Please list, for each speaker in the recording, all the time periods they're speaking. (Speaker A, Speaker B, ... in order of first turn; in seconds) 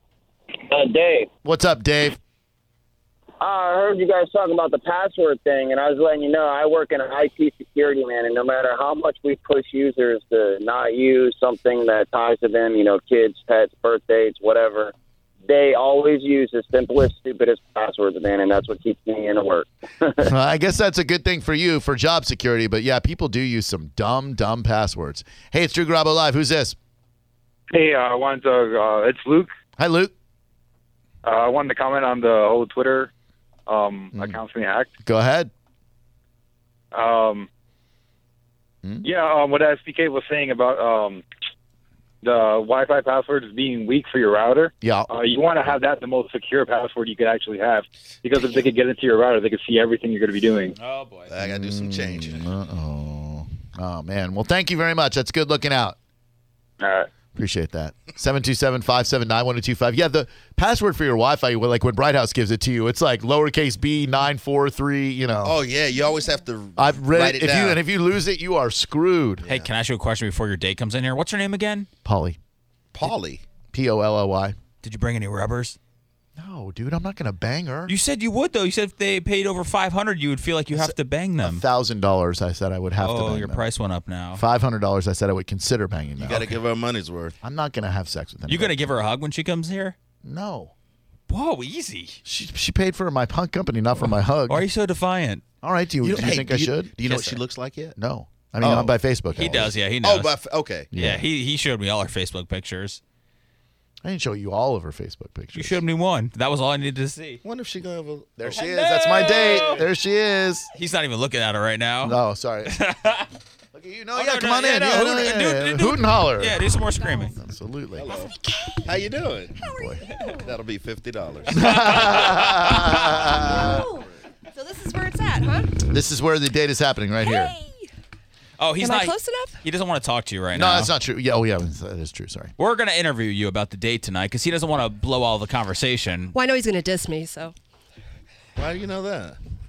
Speaker A: 0.6-1.3, 3.4-14.9, 15.4-20.3
Speaker B: 1.4-2.2, 20.2-26.8, 29.8-30.1, 35.0-35.5, 44.8-45.1, 51.4-56.0, 57.4-65.5, 66.8-69.4, 72.0-72.4, 73.7-74.5, 76.3-77.9, 80.7-83.6, 84.3-86.5, 87.4-88.8, 90.2-90.7, 92.2-94.6, 95.6-96.9, 98.0-99.7, 100.9-101.2, 104.0-105.8, 108.4-110.7, 112.0-112.8, 113.7-116.6, 117.3-118.1, 119.7-120.0, 121.5-123.8, 125.9-127.5, 130.5-132.5
Speaker C: 27.7-29.5, 31.2-33.1, 33.7-34.9, 36.9-37.5, 39.0-41.2, 42.2-50.7, 56.8-57.1
Speaker D: 50.8-51.3, 69.5-71.9, 74.8-75.8, 77.9-81.6, 83.0-84.4, 88.5-90.0, 91.3-92.2, 94.5-95.4, 97.0-97.4, 99.3-100.3, 100.9-103.0, 105.5-107.4, 108.5-109.8, 110.7-112.2, 112.7-113.3, 114.1-117.3, 121.8-122.9, 128.6-130.9, 132.6-136.3
Speaker E: 51.3-52.4, 65.4-67.8, 69.4-69.7, 72.9-73.4, 86.2-87.3, 96.0-98.0, 98.6-98.9, 100.0-100.9, 107.4-108.6, 109.2-109.8, 118.0-118.3, 118.8-119.6, 120.3-122.1, 123.3-123.8, 138.6-139.3
Speaker F: 117.0-117.3, 118.1-119.0, 119.6-120.5, 122.9-125.8, 127.2-127.9, 128.8-129.6, 136.3-137.5